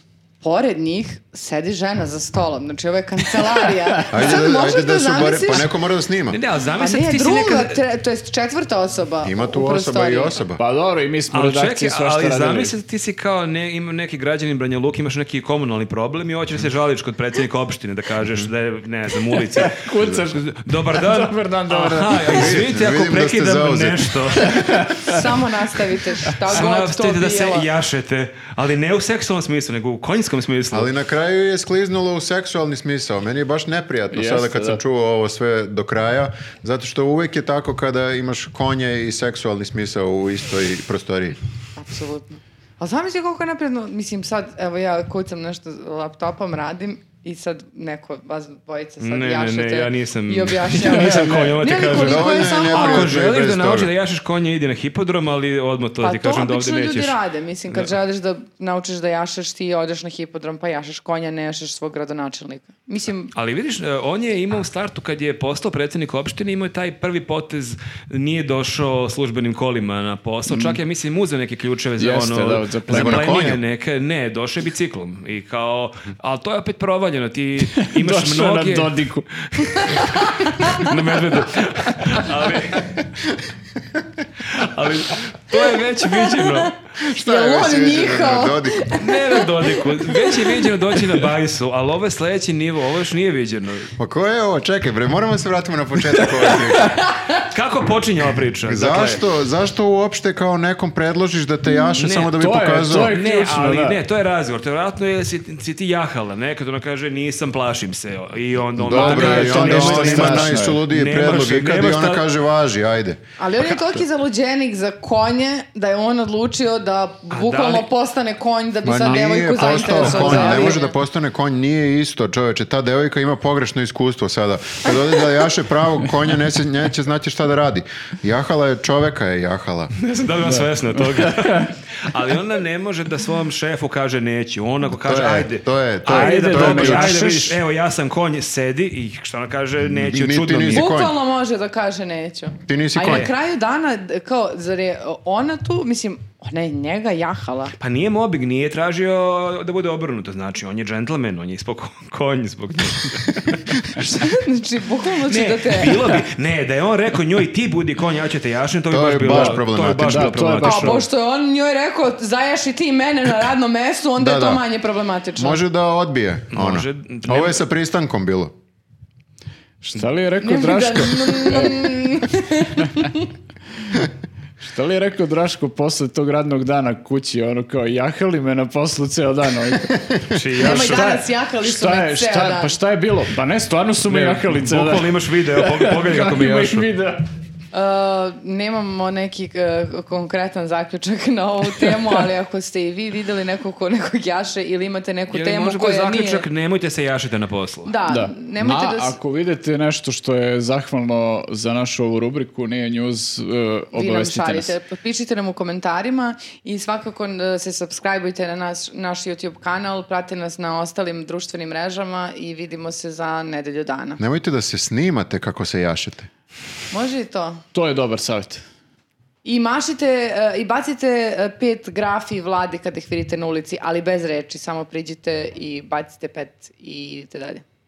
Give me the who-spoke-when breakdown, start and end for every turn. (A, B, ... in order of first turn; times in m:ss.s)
0:00.4-0:05.7 A
0:04.1-0:06.4 B
0:06.3-0:07.8 C
0:06.8-0:10.4 A
0:09.2-0:10.6 B
0:10.6-0:12.7 D
0:11.3-0:24.7 C
0:19.3-0:22.6 D
0:22.3-0:24.5 B
0:24.4-0:25.2 D
0:25.0-0:27.7 A
0:26.4-0:30.9 C
0:30.7-0:41.4 B
0:34.1-0:34.8 D
0:41.8-0:53.1 A
0:49.0-0:57.2 C
0:50.8-0:51.6 D
0:51.9-0:53.9 B
0:56.0-1:03.3 A
1:03.3-1:22.9 C
1:12.0-1:13.3 D
1:12.9-1:13.6 B
1:17.8-1:19.3 D
1:19.8-1:20.9 A
1:24.4-1:26.8 C
1:26.1-1:30.7 A
1:27.0-1:29.0 B
1:28.9-1:33.9 C
1:34.0-1:37.0 B
1:36.8-1:37.4 A
1:37.4-1:39.2 C
1:38.6-1:43.2 B
1:42.0-1:42.3 C
1:42.4-1:44.0 D
1:42.9-1:52.2 C
1:48.8-1:53.2 B
1:48.9-1:50.8 D
1:53.4-2:00.9 A
1:57.3-1:57.9 C
1:58.8-2:09.9 B
1:59.6-2:00.8 D
2:10.0-2:20.9 C
2:10.4-2:11.7 D
2:15.0-2:17.2 B
2:16.1-2:17.6 D
2:19.8-2:21.2 B
2:20.7-2:27.7 A
2:22.7-2:23.3 B
2:23.0-2:23.3 C
2:27.8-2:33.6 C
2:33.9-2:36.2 A
2:35.3-2:41.0 C
2:38.9-2:40.4 B
2:39.3-2:41.0 D
2:40.6-2:45.6 A
2:44.2-2:44.6 B
2:45.4-2:48.5 B
2:46.5-2:47.6 C
2:49.8-2:51.9 D
2:50.4-2:53.3 A
2:54.6-3:00.0 D
3:00.3-3:01.2 C
3:00.6-3:02.7 A
3:00.6-3:07.2 D
3:04.0-3:06.9 C
3:07.7-3:16.4 A
3:15.3-3:17.9 C
3:17.8-3:19.2 A
3:18.0-3:24.7 D
3:23.9-3:34.2 A
3:34.2-3:36.3 B
3:36.9-3:37.6 A
3:37.7-3:38.6 D
3:39.4-3:47.6 A